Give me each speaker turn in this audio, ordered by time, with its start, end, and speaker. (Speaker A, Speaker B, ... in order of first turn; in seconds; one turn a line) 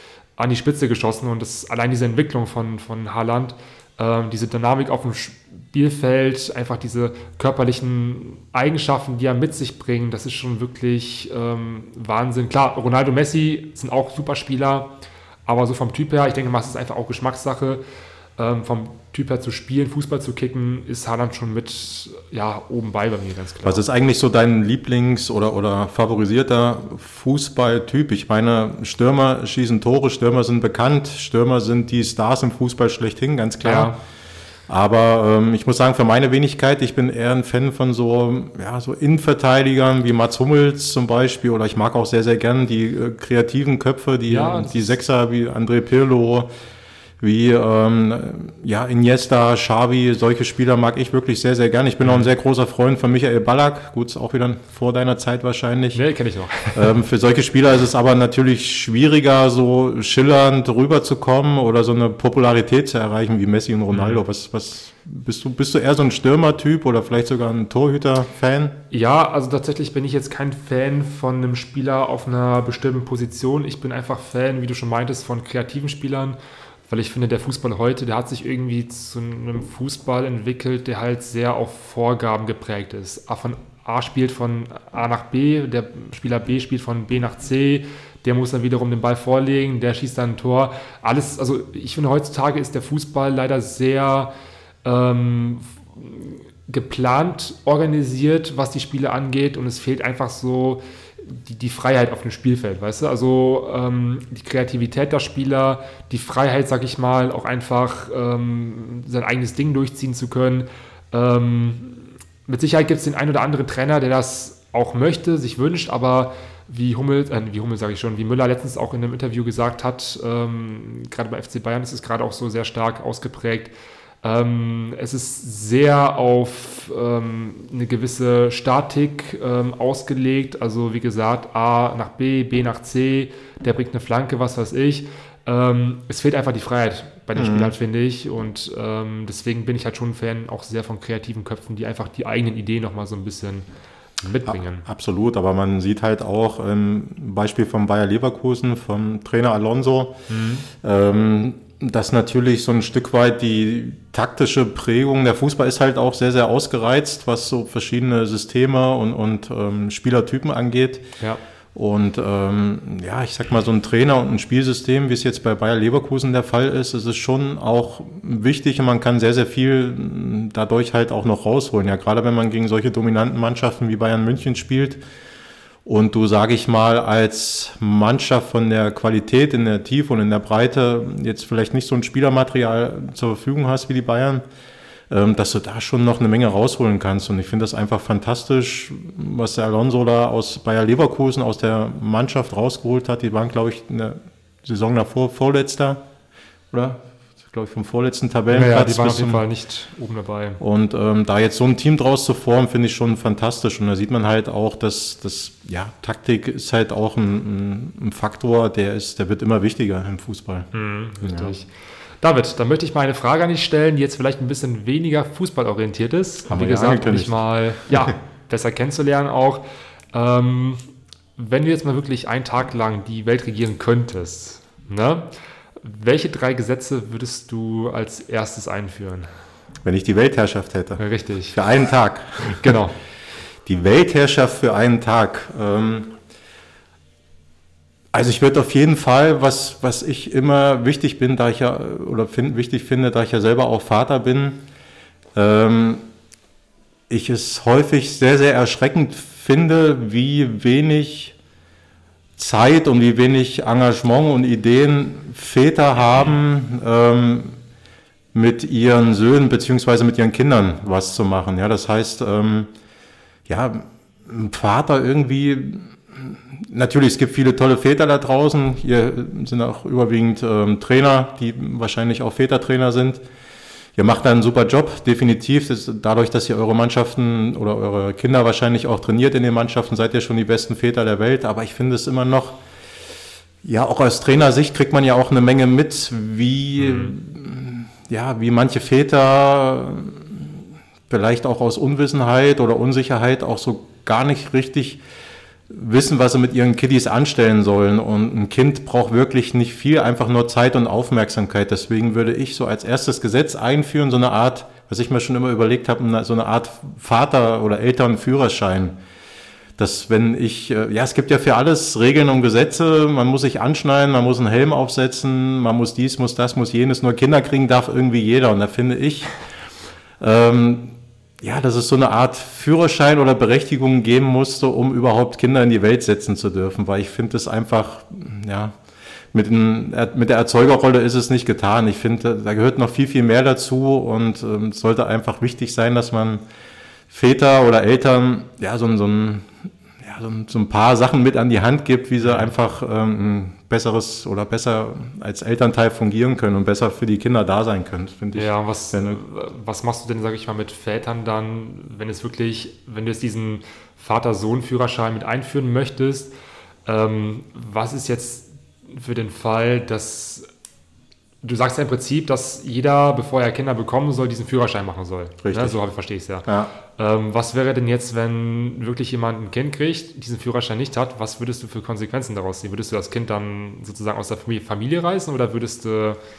Speaker A: 0.4-14.9
Speaker A: 15.4-17.8
Speaker A: 18.4-23.8
Speaker B: 23.6-33.9
Speaker A: 33.6-34.0
Speaker B: 34.7-46.5
Speaker A: 44.3-45.0
Speaker B: 47.2-56.0
Speaker A: 52.0-52.3
Speaker A: 55.9-56.9
Speaker B: 56.7-68.8
Speaker A: 63.9-64.2
Speaker A: 68.9-76.4
Speaker A: 76.9-94.3
Speaker A: 94.8-143.7
Speaker B: 137.3-137.7
Speaker A: 144.2-144.8
Speaker B: 144.4-150.2
Speaker A: 150.3-150.7
Speaker B: 150.7-161.1
Speaker B: 161.7-175.0
Speaker B: 175.8-184.4
Speaker B: 185.1-196.0
Speaker B: 196.7-199.4
Speaker A: 198.5-200.6
Speaker B: 200.6-210.7
Speaker A: 210.7-211.7
Speaker B: 211.2-211.5
Speaker A: 212.2-220.8
Speaker B: 216.5-217.9
Speaker A: 221.4-229.3
Speaker B: 229.8-232.8
Speaker A: 231.0-231.6
Speaker A: 232.4-232.9
Speaker B: 233.6-236.2
Speaker B: 238.1-244.6
Speaker B: 245.3-246.0
Speaker B: 247.1-251.3
Speaker B: 252.4-257.6
Speaker B: 258.3-262.7
Speaker B: 263.5-273.2
Speaker B: 273.9-282.6
Speaker B: 283.6-295.0
Speaker A: 286.8-287.1
Speaker B: 295.7-308.9
Speaker B: 309.8-319.3
Speaker B: 320.2-328.8
Speaker B: 329.3-336.4
Speaker B: 337.1-349.2
Speaker A: 342.2-342.5
Speaker A: 348.3-356.3
Speaker A: 356.9-360.5
Speaker A: 361.4-376.2
Speaker B: 365.4-365.8
Speaker B: 366.4-366.7